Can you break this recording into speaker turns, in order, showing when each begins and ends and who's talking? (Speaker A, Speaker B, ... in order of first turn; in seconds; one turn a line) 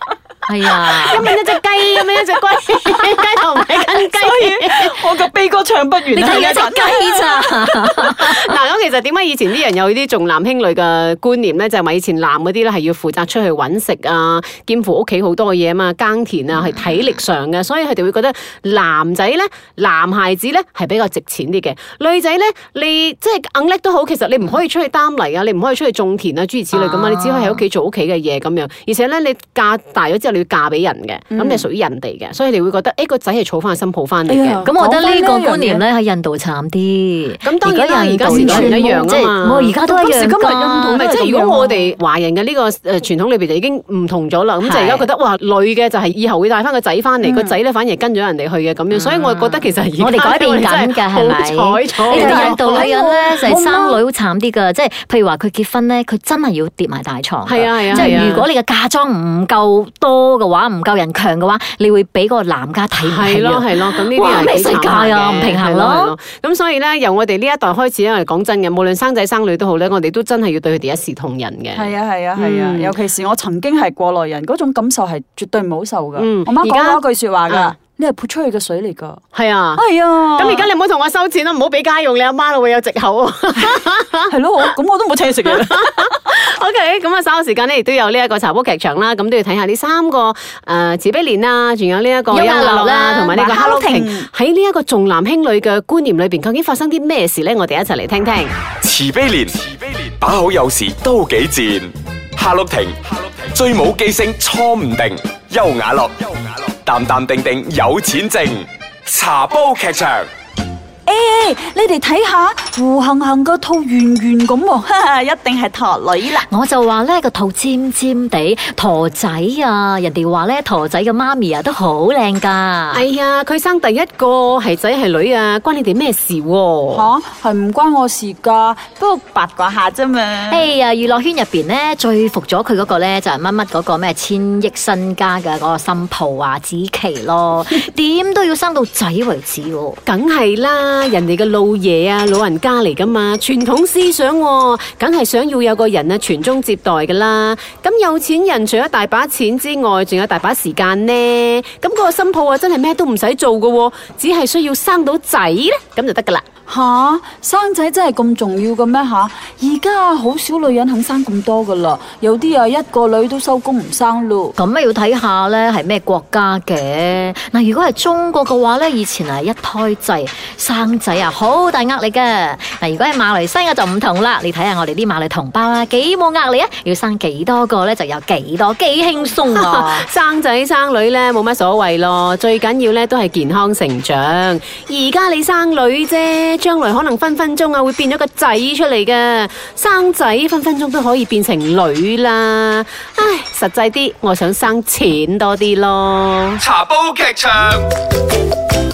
Speaker A: 0.5-1.3
Speaker B: 0.9-1.4
Speaker C: 1.0-5.0
Speaker B: 4.0-7.8
Speaker A: 6.1-8.4
Speaker C: 8.1-34.7
Speaker A: 26.7-27.6
Speaker B: 31.3-31.7
Speaker B: 34.3-35.9
Speaker A: 34.6-41.1
Speaker C: 37.4-39.8
Speaker B: 38.3-39.1
Speaker B: 39.9-41.9
Speaker C: 40.9-53.0
Speaker A: 44.6-45.1
Speaker B: 47.2-47.6
Speaker A: 48.9-66.1
Speaker B: 52.1-54.0
Speaker C: 57.5-58.5
Speaker B: 57.9-58.2
Speaker C: 63.0-73.0
Speaker B: 71.8-79.2
Speaker C: 76.2-77.8
Speaker C: 79.3-84.3
Speaker B: 79.8-80.7
Speaker B: 84.3-86.1
Speaker C: 85.5-98.5
Speaker A: 92.3-93.4
Speaker B: 93.3-94.3
Speaker D: 98.8-110.3
Speaker B: 111.1-116.5
Speaker A: 116.5-123.0
Speaker C: 122.9-127.1
Speaker B: 126.9-130.7
Speaker A: 130.5-140.0
Speaker C: 140.1-156.5
Speaker B: 156.7-164.6
Speaker A: 164.6-180.1
Speaker C: 179.5-196.6
Speaker D: 196.6-197.8